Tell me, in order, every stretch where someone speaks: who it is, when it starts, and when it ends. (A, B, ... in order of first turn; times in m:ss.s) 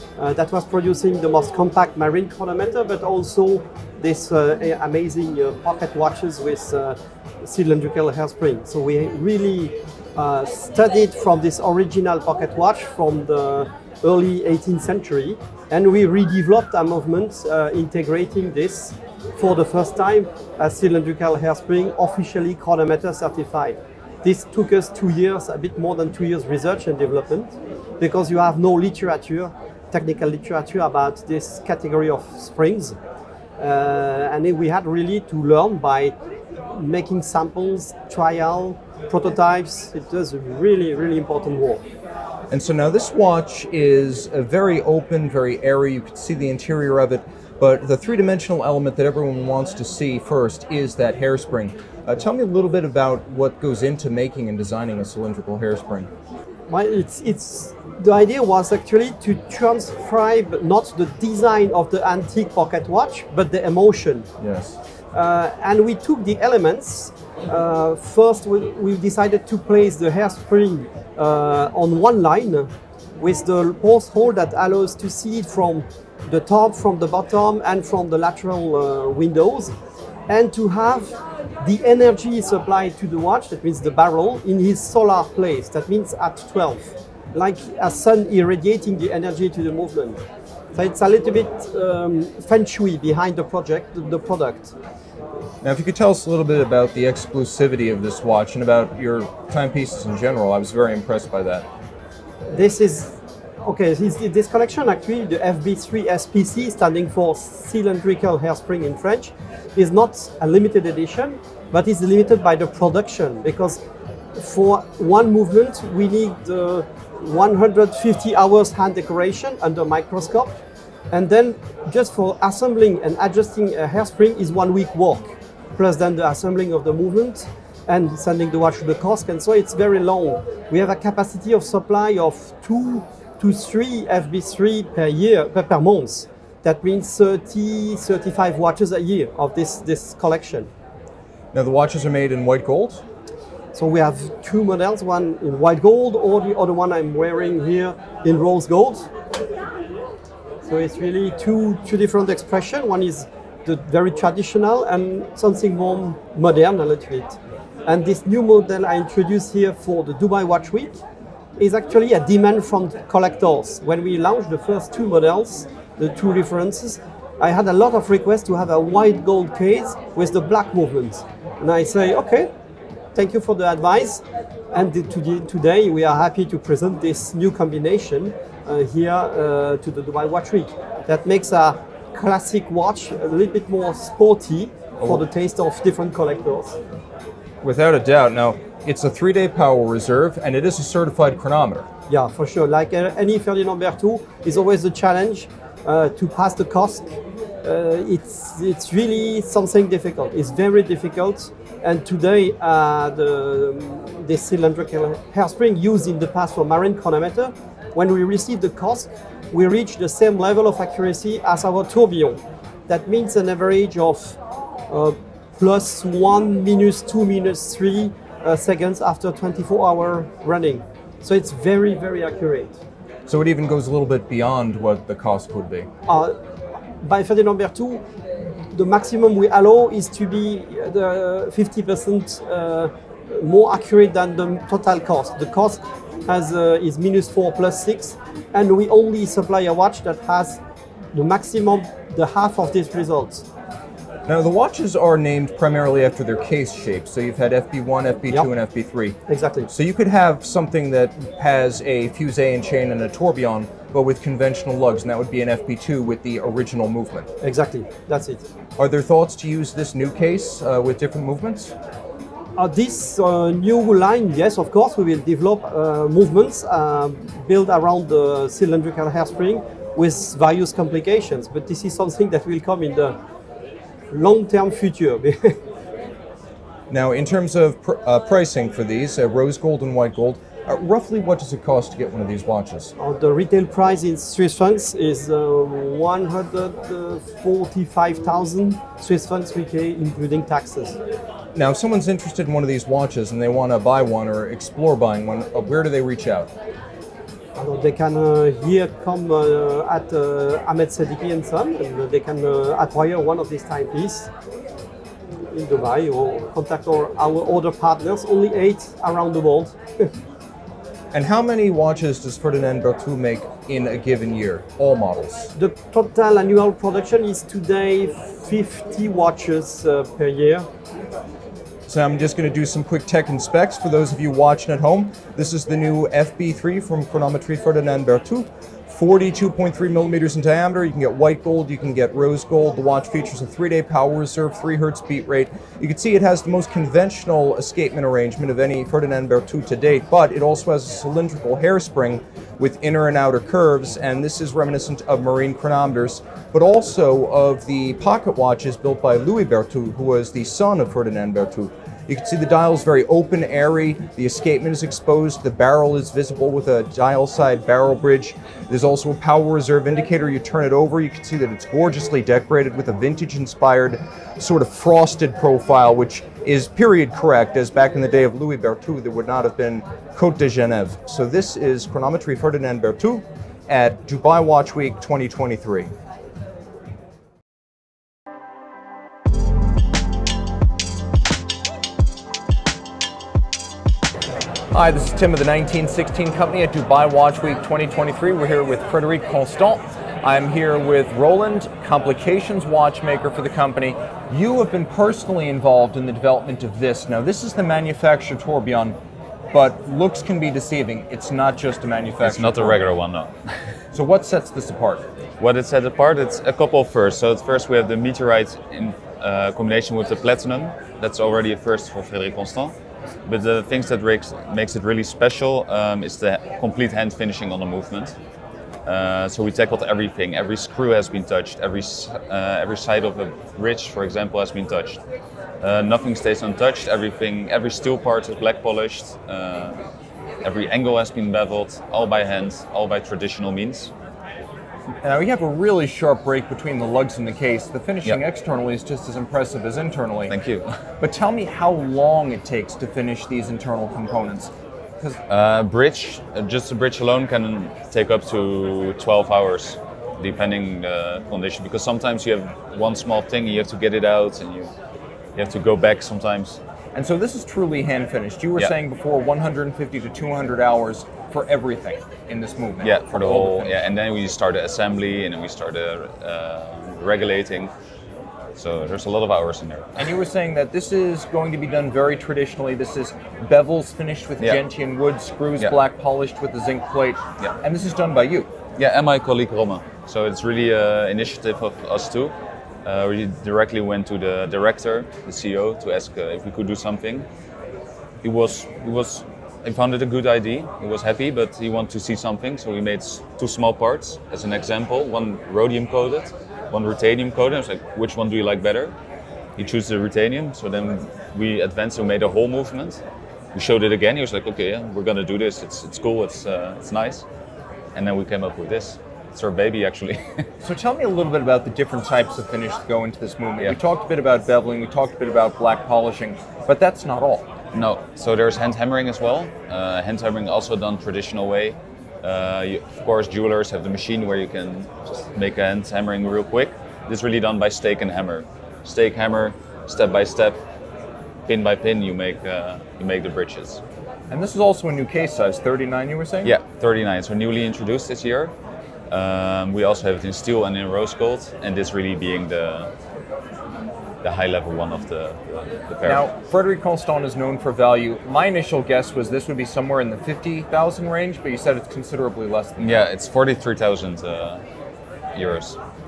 0:00.2-0:33.0 A
0:33.6-0:36.2 A
0:36.7-0:41.8 A
0:42.5-0:56.1 B
0:56.7-1:04.3 A
1:04.4-1:04.8 B
1:05.1-1:19.8 A
1:20.3-1:30.2 A
1:30.7-1:34.7 A
1:35.6-1:41.7 B
1:42.5-1:53.8 A
1:54.4-2:00.6 A
2:01.1-2:20.7 A
2:21.5-2:23.0 B
2:23.7-2:29.1 A
2:30.6-2:41.0 A
2:41.6-2:52.5 A
2:53.1-3:06.8 A
3:07.6-3:11.9 B
3:12.1-3:17.1 A
3:17.6-3:34.4 A
3:34.9-3:42.8 A
3:43.3-3:45.9 B
3:46.1-3:46.4 A
3:47.0-3:48.1 A
3:48.7-4:00.6 A
4:01.1-4:03.4 A
4:04.3-4:09.2 B
4:09.3-4:09.7 A
4:09.7-4:17.3 B
4:17.4-4:18.4 A
4:18.8-4:21.7 B
4:22.6-4:33.2 A
4:34.1-4:35.6 A
4:36.9-4:42.9 B
4:43.0-4:51.0 A
4:51.6-4:56.5 B
4:57.6-5:04.3 A
5:05.5-5:10.1 A
5:11.1-5:15.5 B
5:15.6-5:20.7 A
5:21.9-6:15.9 B
6:24.7-6:39.0 B
6:39.5-6:42.9 B
6:42.2-6:43.8 C
6:43.9-6:45.0 B
6:45.4-6:52.7 C
6:53.3-6:58.1 C
6:58.9-7:05.0 C
7:05.6-7:09.8 C
7:10.4-7:13.9 C
7:15.0-7:20.4 B
7:20.3-7:20.7 C
7:21.0-7:25.2 B
7:25.3-7:34.7 C
7:35.4-7:36.6 C
7:37.0-7:43.8 B
7:42.8-7:47.7 C
7:48.6-7:50.0 C
7:50.0-7:58.5 B
7:58.8-8:07.3 C
8:08.2-8:19.0 C
8:19.6-8:23.0 C
8:23.5-8:27.3 C
8:28.0-8:30.4 C
8:30.6-8:37.5 B
8:37.7-8:50.6 C
8:51.5-8:53.8 C
8:54.3-8:56.6 B
8:56.4-8:58.5 C
8:59.1-9:02.9 C
9:04.2-9:06.3 C
9:06.0-9:13.0 B
9:12.8-9:14.6 C
9:15.3-9:15.8 C